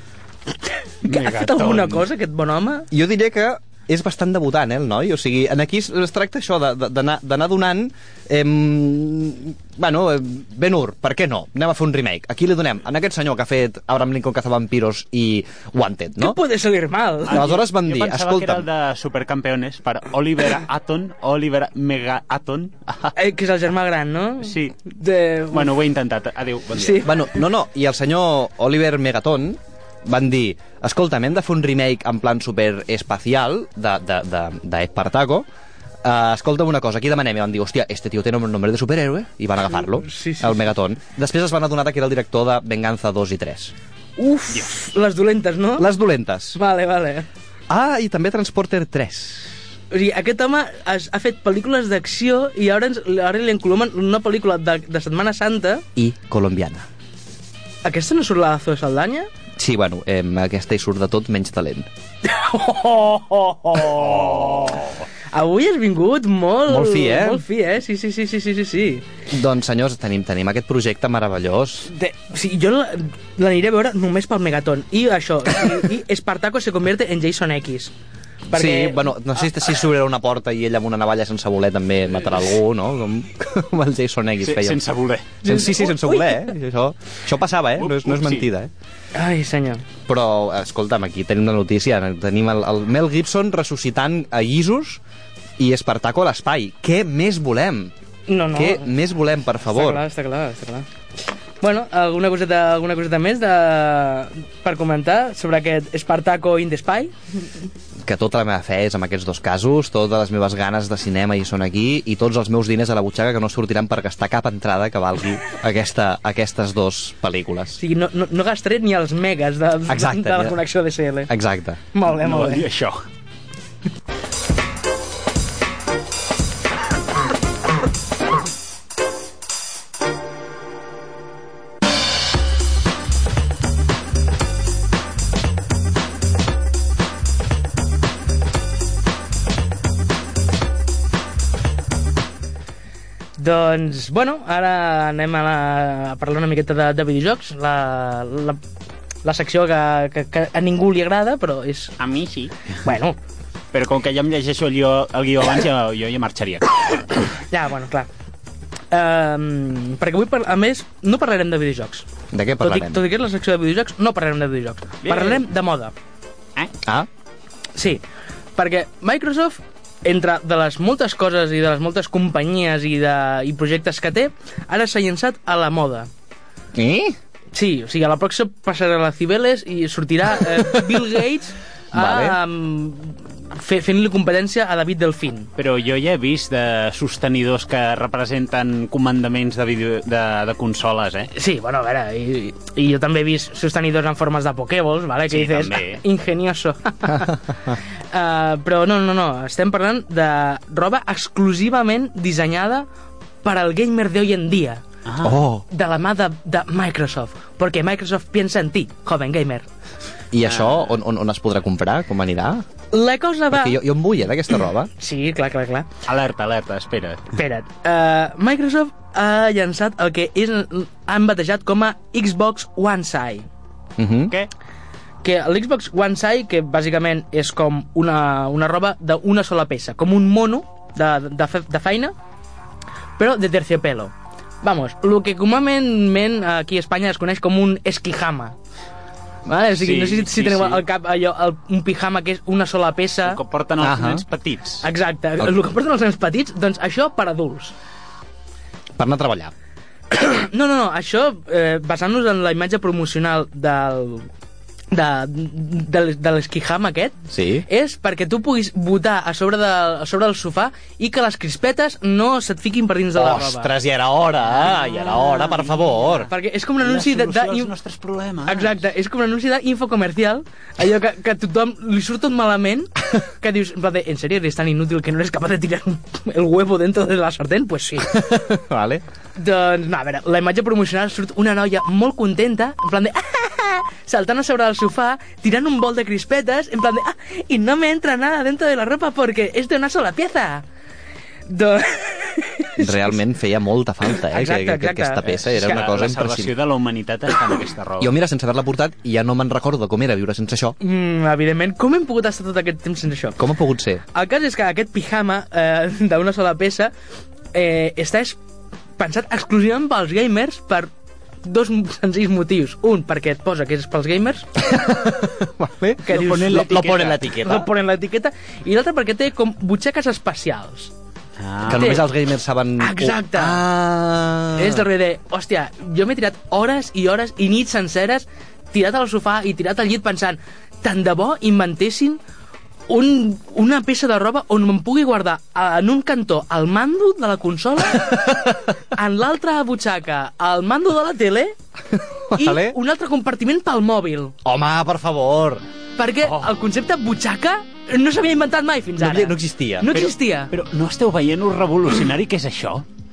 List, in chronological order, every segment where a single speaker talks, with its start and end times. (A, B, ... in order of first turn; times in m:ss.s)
0:01.0-0:02.9 A
0:01.0-0:02.0 B
0:02.9-0:16.4 C
0:16.2-0:17.5 A
0:17.3-0:23.1 B
0:17.3-0:18.6 C
0:23.2-0:25.7 A
0:24.4-0:24.8 B
0:25.5-0:27.1 B
0:26.8-0:27.1 A
0:27.0-0:35.4 C
0:36.0-0:43.7 C
0:40.0-0:40.6 A
0:44.2-0:45.9 A
0:45.8-0:46.6 C
0:46.6-0:47.3 A
0:47.7-0:49.5 C
0:49.9-0:55.8 A
0:56.0-0:56.9 C
0:57.8-0:59.3 A
0:59.6-1:01.9 C
1:02.2-1:09.0 A
1:04.2-1:04.8 B
1:06.7-1:07.4 C
1:09.3-1:11.9 C
1:11.9-1:17.9 A
1:18.5-1:19.1 A
1:18.5-1:24.8 C
1:24.4-1:25.4 B
1:25.4-1:28.7 C
1:25.4-1:26.4 A
1:27.8-1:28.5 B
1:29.1-1:29.8 A
1:30.1-1:35.0 C
1:35.6-1:37.9 C
1:38.3-1:39.0 A
1:38.5-1:40.0 C
1:39.6-1:40.9 A
1:41.6-1:47.1 A
1:48.0-1:57.8 C
1:57.8-2:01.3 A
1:59.9-2:00.6 C
2:01.3-2:01.8 C
2:01.9-2:02.7 A
2:02.1-2:03.0 B
2:23.4-2:28.6 A
2:29.2-2:32.0 A
2:32.0-2:32.5 B
2:32.8-2:33.2 A
2:33.7-2:37.1 B
2:37.5-2:38.1 A
2:38.9-2:42.1 A
2:42.3-2:43.0 C
2:42.6-2:45.9 A
2:45.0-2:45.4 B
2:46.8-2:47.1 C
2:47.8-2:48.0 A
2:48.6-2:56.1 A
2:56.8-2:57.2 C
2:57.5-3:05.5 A
3:01.9-3:02.4 C
3:05.6-3:11.3 B
3:11.3-3:17.4 A
3:15.3-3:16.0 B
3:18.1-3:22.9 A
3:23.4-3:24.8 A
3:25.1-3:25.4 B
3:25.2-3:25.7 C
3:25.7-3:29.7 A
3:30.3-3:32.6 C
3:32.9-3:33.8 A
3:33.5-3:34.9 C
3:34.9-3:35.9 A
3:36.1-3:37.3 B
3:37.3-3:43.5 A
3:44.0-3:44.3 C
3:45.2-3:52.1 A
3:53.2-3:58.6 A
3:59.5-4:03.4 A
3:59.7-4:00.8 B
4:03.3-4:04.8 B
4:03.8-4:04.2 C
4:04.8-4:07.7 A
4:09.0-4:09.5 C
4:10.1-4:14.3 A
4:14.9-4:23.7 A
4:17.3-4:17.7 C
4:23.2-4:26.3 C
4:26.3-4:27.7 A
4:26.8-4:28.8 B
4:28.5-4:38.4 A
4:38.1-4:39.0 C
4:39.4-4:50.7 A
4:51.5-4:53.2 A
4:52.8-4:56.5 C
4:54.1-4:55.7 A
4:55.5-4:58.2 B
4:58.0-5:00.8 C
5:00.8-5:03.4 A
5:03.4-5:04.0 C
5:04.1-5:06.9 A
5:07.5-5:08.4 A
5:09.0-5:10.9 A
5:11.4-5:14.6 A
5:14.6-5:17.7 C
5:16.0-5:20.9 A
5:16.1-5:17.2 B
5:21.4-5:22.0 B
5:21.7-5:24.9 C
5:21.7-5:22.1 A
5:22.8-5:23.6 A
5:24.6-5:32.2 A
5:32.9-5:41.6 A
5:38.0-5:38.5 C
5:42.0-5:42.8 C
5:42.3-5:44.4 A
5:44.4-5:45.6 C
5:46.0-5:50.5 A
5:46.2-5:46.5 B
5:49.0-5:49.9 C
5:49.9-5:52.8 B